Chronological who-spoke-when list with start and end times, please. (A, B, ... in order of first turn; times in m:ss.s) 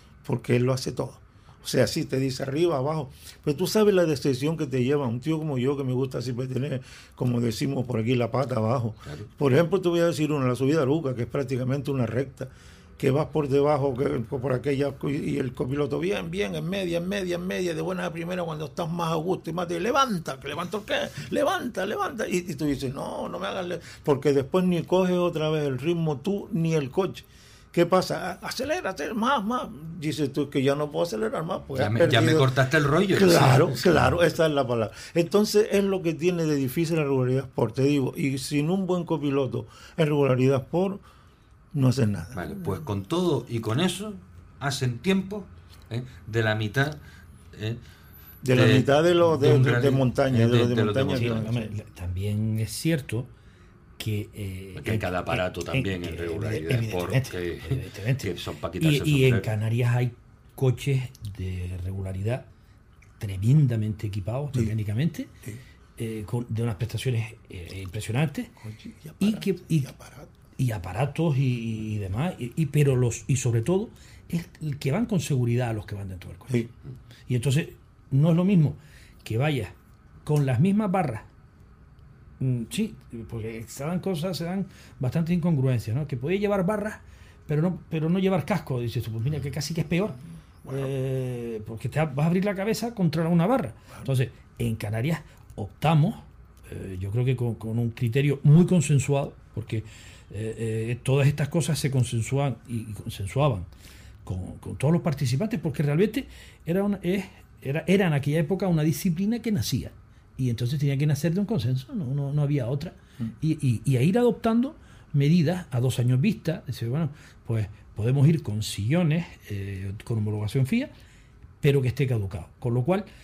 0:00.2-0:32.5 A
0:31.7-0:34.2 B
0:33.1-0:41.0 A
0:41.7-0:42.4 A
0:42.3-0:47.0 B
0:47.5-0:47.8 B
0:48.4-0:51.7 A
0:48.5-0:51.5 B
0:49.4-0:49.9 C
0:51.0-0:53.3 C
0:54.0-1:02.4 C
0:54.8-0:59.5 B
1:03.2-1:05.4 C
1:06.0-1:08.5 C
1:08.6-1:10.3 A
1:09.2-1:09.9 C
1:10.6-1:16.6 C
1:17.3-1:19.7 C
1:20.2-1:21.2 C
1:22.4-1:43.7 C
1:44.2-2:00.9 C
2:01.6-2:03.1 C